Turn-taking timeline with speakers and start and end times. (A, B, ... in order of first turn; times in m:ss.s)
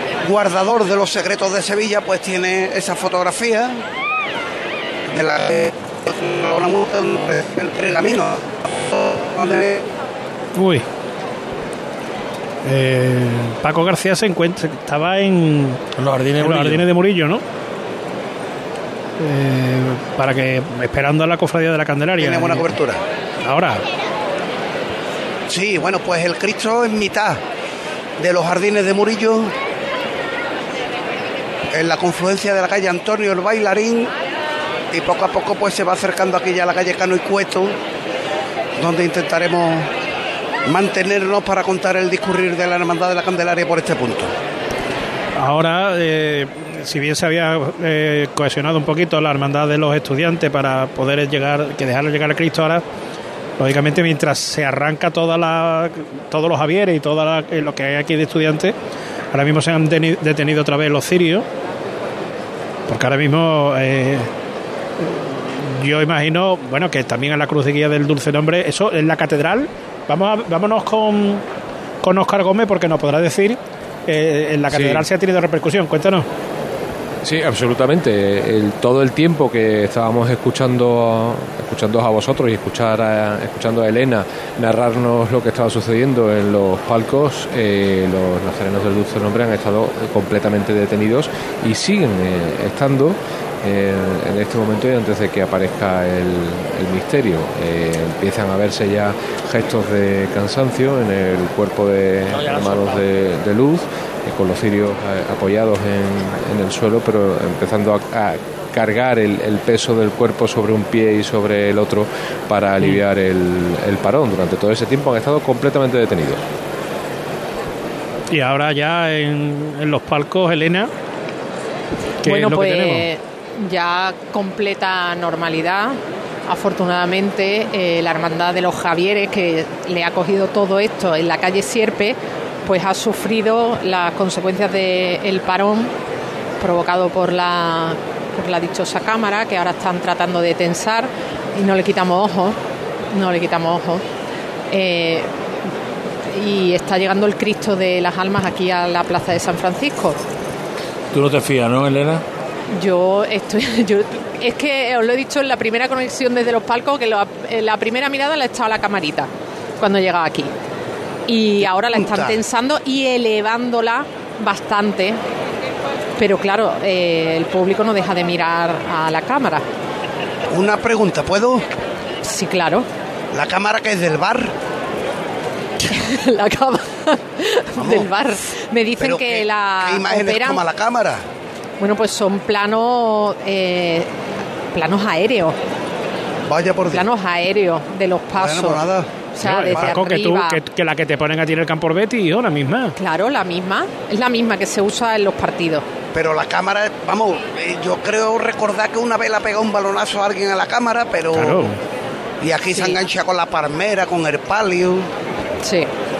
0:00.2-0:03.8 A
0:05.1-0:08.4 A
0:08.9-0:09.8 A
0:10.5-0:10.8 B
0:12.6-0:15.8 B
0:16.0-0:16.9 C
0:16.4-0:17.4 B
0:19.2-0:22.7 B
0:22.2-0:23.0 A
0:23.4-0:23.8 B
0:25.5-0:27.4 A
0:28.2-0:29.5 A
0:31.7-0:34.1 A
0:34.9-0:37.7 A
0:38.8-0:39.9 A
0:40.6-0:44.3 A
0:45.4-0:52.8 B
0:53.6-0:58.7 B
0:59.3-1:01.4 B
1:02.9-1:04.3 B
1:05.0-1:11.4 B
1:12.0-1:16.2 B
1:14.7-1:15.1 D
1:17.2-1:56.4 D
1:42.3-1:43.0 C
1:58.3-2:00.9 B
2:02.2-2:03.1 B
2:02.2-2:15.9 E
2:16.6-2:22.6 E
2:23.1-2:24.0 E
2:24.7-2:25.3 E
2:26.3-2:30.2 E
2:31.1-2:32.2 C
2:32.7-2:40.5 E
2:41.3-2:45.2 E
2:41.6-2:42.4 A
2:46.2-2:49.6 E
2:50.5-2:51.6 A
2:52.2-2:52.9 E
2:53.3-2:54.5 A
2:55.9-3:00.6 E
2:57.8-2:58.1 A
2:59.0-3:01.2 A
3:01.8-3:04.1 E
3:04.7-3:05.6 E
3:06.5-3:07.0 A
3:06.9-3:08.8 E
3:08.4-3:10.0 A
3:09.4-3:10.6 E
3:09.4-3:12.9 B
3:13.0-3:15.9 E
3:16.1-3:21.6 A
3:21.3-3:21.8 B
3:22.4-3:25.1 A
3:22.7-3:23.0 E
3:25.6-3:25.9 E